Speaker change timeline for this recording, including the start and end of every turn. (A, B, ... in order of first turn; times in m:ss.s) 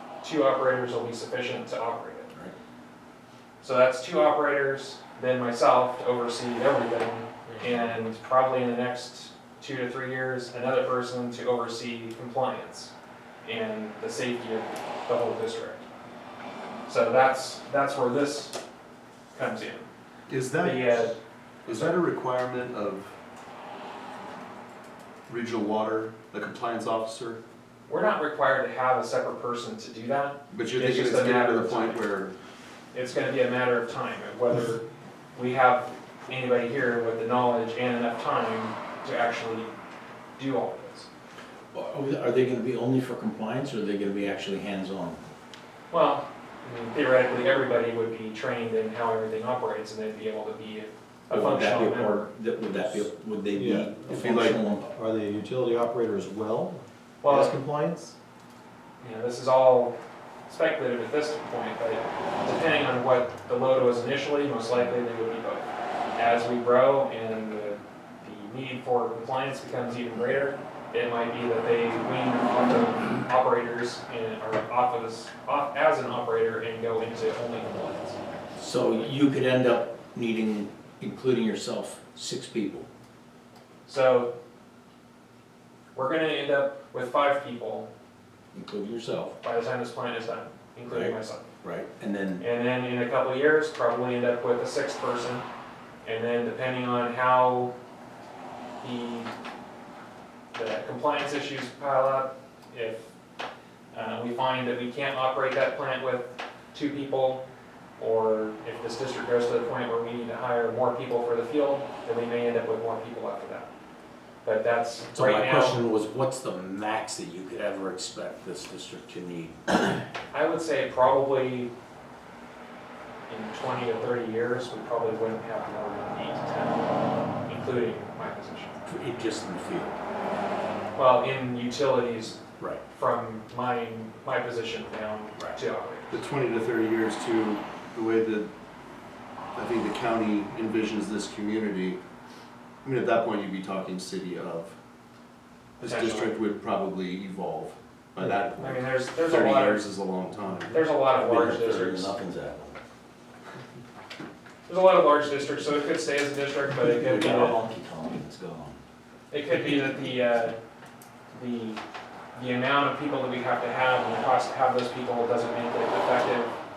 0:00.2-0:02.3 A
0:03.6-0:12.9 A
0:07.5-0:07.8 B
0:13.4-0:15.8 A
0:16.9-0:18.6 A
0:19.3-0:19.9 A
0:20.3-0:21.1 C
0:20.6-0:21.2 A
0:21.7-0:23.2 C
0:21.7-0:22.0 A
0:25.3-0:27.4 C
0:27.9-0:32.0 A
0:30.5-0:32.4 C
0:32.9-0:39.7 A
0:40.4-0:41.1 A
0:41.7-0:45.2 D
0:45.9-0:52.2 A
0:51.3-0:54.9 D
0:53.5-0:54.1 B
0:54.1-0:54.6 C
0:54.8-0:58.2 B
0:57.2-0:57.5 A
0:59.0-0:59.9 A
1:00.5-1:05.7 A
1:06.2-1:18.2 A
1:18.6-1:22.9 D
1:23.9-1:24.3 A
1:26.0-1:27.9 A
1:28.5-1:29.3 D
1:29.4-1:31.5 A
1:30.9-1:32.4 D
1:32.4-1:35.4 A
1:36.0-1:37.7 A
1:38.8-1:39.3 A
1:40.5-1:43.1 A
1:43.9-1:47.4 A
1:48.0-1:53.7 A
1:54.4-1:55.8 A
1:55.1-2:00.1 D
2:00.3-2:01.7 A
2:03.3-2:06.9 A
2:07.4-2:08.8 A
2:08.8-2:10.0 D
2:11.0-2:16.1 A
2:16.1-2:18.5 C
2:19.5-2:22.0 C
2:22.8-2:24.8 C
2:25.8-2:30.8 C
2:25.8-2:26.4 A
2:28.6-2:29.8 A
2:30.7-2:32.1 A
2:31.2-2:32.8 D
2:34.7-2:37.6 A
2:36.8-2:38.8 D
2:39.3-2:40.6 A
2:39.5-2:40.1 D
2:41.3-2:41.8 A
2:42.4-2:46.6 A